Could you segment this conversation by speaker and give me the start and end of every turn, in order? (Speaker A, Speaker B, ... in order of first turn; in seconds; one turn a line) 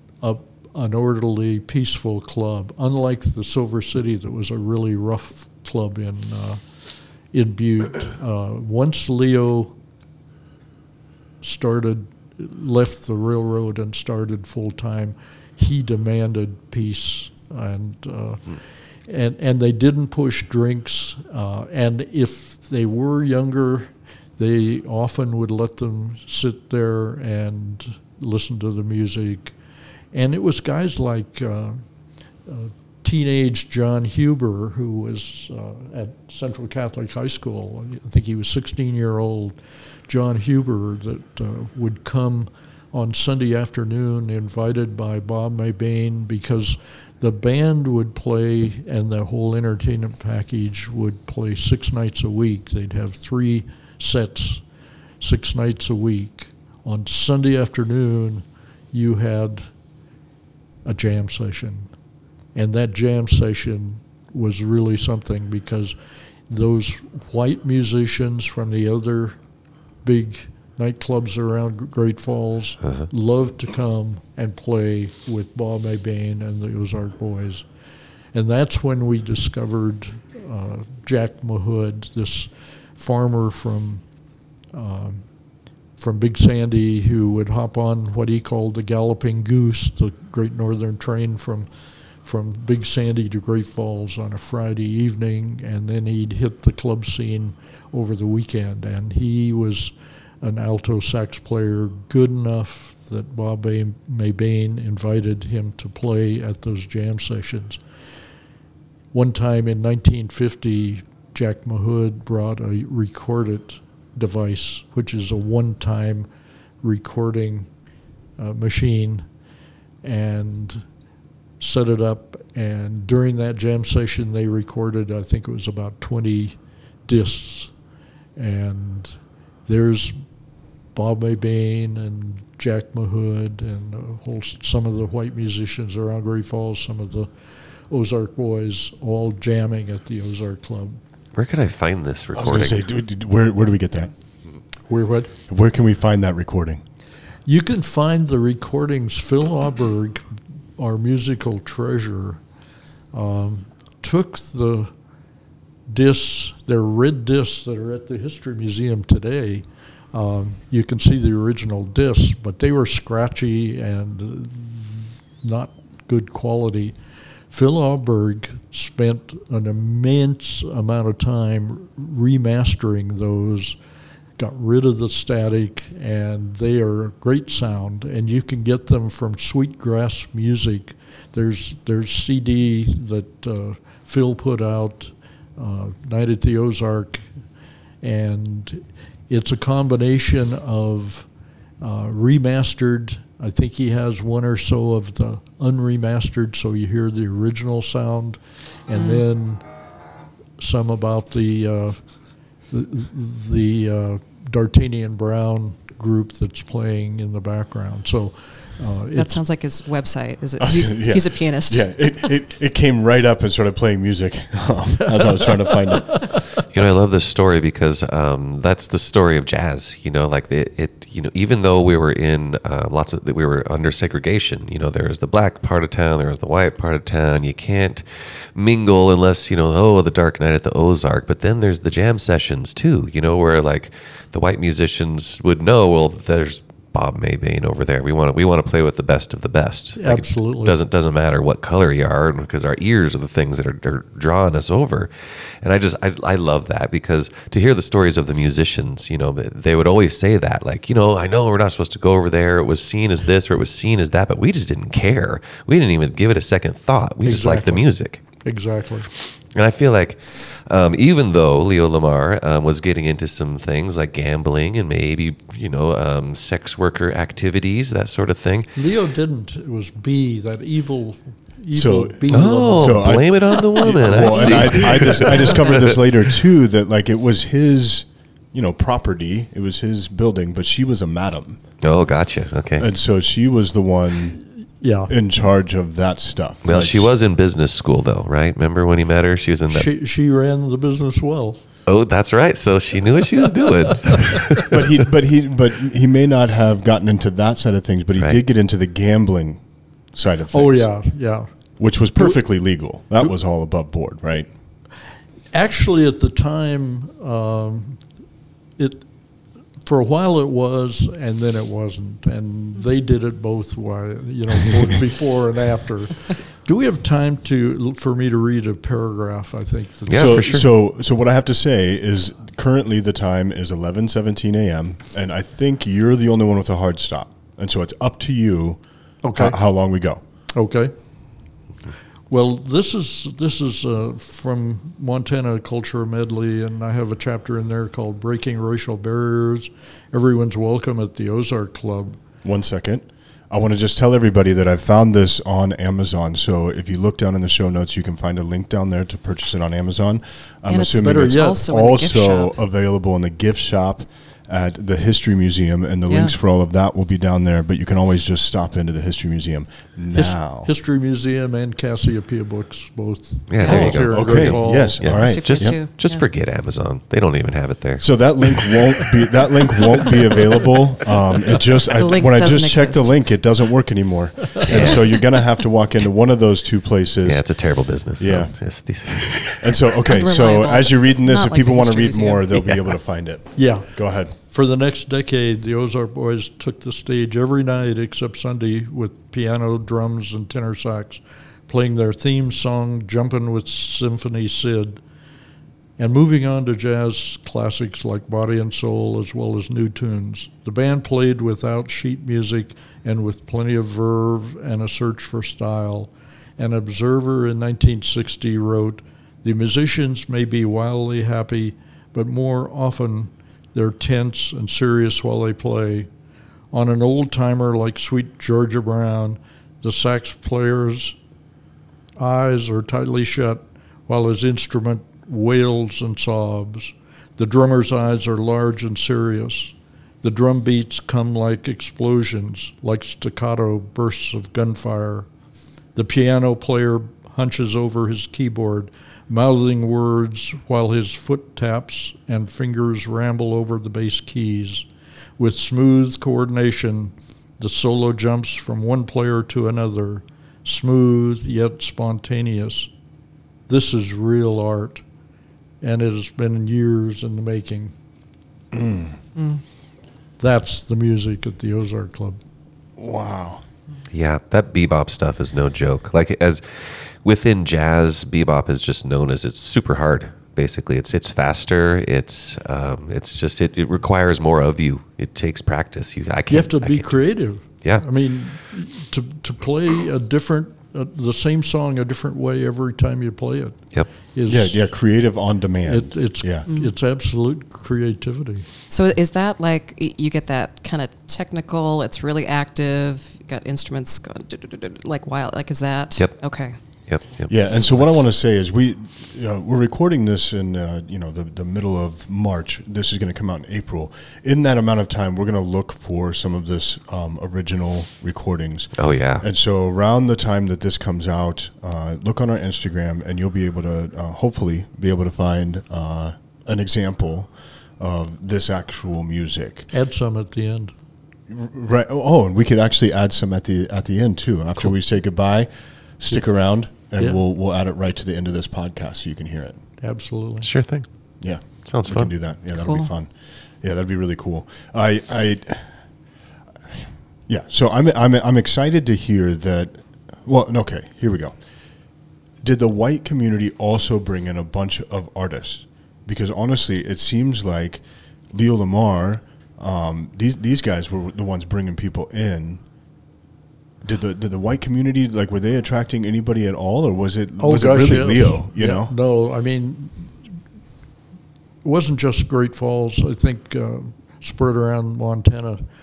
Speaker A: 0.2-6.6
Speaker A: 7.3-9.8
Speaker A: 11.4-29.6
Speaker A: 30.1-31.8
Speaker A: 32.5-54.6
Speaker A: 55.2-59.7
Speaker A: 60.9-61.9
Speaker A: 62.5-66.0
Speaker A: 66.5-69.4
Speaker A: 70.0-77.7
Speaker A: 78.3-84.0
Speaker A: 84.7-85.2
Speaker A: 86.0-91.7
Speaker A: 92.2-107.8
Speaker A: 109.1-116.3
Speaker A: 116.8-117.7
Speaker A: 118.4-119.3
Speaker A: 120.0-120.9
Speaker A: 121.6-127.7
Speaker A: 128.4-130.2
Speaker A: 130.9-137.3
Speaker A: 137.9-141.0
Speaker B: 141.3-142.8
Speaker C: 142.3-144.1
Speaker A: 144.9-145.3
Speaker C: 145.5-146.8
Speaker A: 147.5-152.4
Speaker A: 153.1-154.9
Speaker A: 155.9-166.9
Speaker A: 167.5-173.8
Speaker A: 174.4-187.3
Speaker A: 188.0-191.3
Speaker A: 191.8-199.6
Speaker D: 198.9-199.2
Speaker A: 200.6-202.0
Speaker A: 202.7-209.4
Speaker D: 209.2-212.1
Speaker C: 210.6-216.5
Speaker A: 216.1-216.4
Speaker B: 216.7-258.2
Speaker A: 240.0-240.8
Speaker A: 257.2-257.9
Speaker A: 258.4-259.1
Speaker B: 259.3-268.8
Speaker A: 268.8-275.7
Speaker C: 271.7-281.6
Speaker B: 272.3-276.0
Speaker B: 281.8-282.9
Speaker C: 282.8-284.4
Speaker A: 284.8-285.1
Speaker C: 285.1-287.1
Speaker B: 286.6-289.9
Speaker A: 289.7-291.6
Speaker B: 291.9-295.0
Speaker A: 293.7-294.4
Speaker C: 294.7-299.6
Speaker C: 300.1-300.9
Speaker A: 300.5-301.5
Speaker C: 301.8-304.5
Speaker A: 305.5-308.0
Speaker A: 308.8-309.1
Speaker A: 309.8-320.5
Speaker B: 320.1-320.7
Speaker C: 320.1-328.8
Speaker A: 329.2-329.6
Speaker C: 329.4-330.2
Speaker A: 330.5-330.9
Speaker A: 332.3-342.2
Speaker C: 342.4-360.7
Speaker D: 350.7-352.6
Speaker A: 351.0-351.6
Speaker D: 356.1-356.3
Speaker A: 360.1-365.0
Speaker B: 363.5-368.8
Speaker D: 363.6-364.0
Speaker C: 363.6-365.8
Speaker D: 365.1-366.3
Speaker C: 368.0-377.5
Speaker D: 371.9-373.3
Speaker B: 374.7-375.1
Speaker D: 374.7-375.0
Speaker B: 377.2-379.9
Speaker C: 378.2-378.6
Speaker C: 379.6-384.3
Speaker D: 380.1-382.6
Speaker B: 382.5-382.9
Speaker A: 383.6-395.0
Speaker A: 396.0-416.1
Speaker A: 416.7-421.2
Speaker A: 422.2-435.3
Speaker A: 435.9-444.9
Speaker A: 445.4-452.9
Speaker A: 453.7-455.0
Speaker A: 455.8-457.9
Speaker C: 458.7-459.2
Speaker D: 459.4-459.6
Speaker A: 460.4-462.4
Speaker C: 463.0-463.6
Speaker B: 464.1-477.2
Speaker A: 476.5-484.9
Speaker C: 484.5-486.7
Speaker A: 485.9-488.7
Speaker D: 488.9-496.8
Speaker B: 496.2-498.1
Speaker C: 497.5-519.9
Speaker B: 509.0-509.5
Speaker A: 519.9-521.0
Speaker C: 521.5-529.8
Speaker A: 527.1-527.4
Speaker A: 530.0-530.7
Speaker B: 530.6-531.1
Speaker C: 531.4-536.1
Speaker B: 531.6-532.3
Speaker D: 532.7-533.1
Speaker C: 536.9-541.6
Speaker C: 542.6-552.8
Speaker C: 554.0-559.1
Speaker A: 557.6-560.4
Speaker A: 561.8-565.8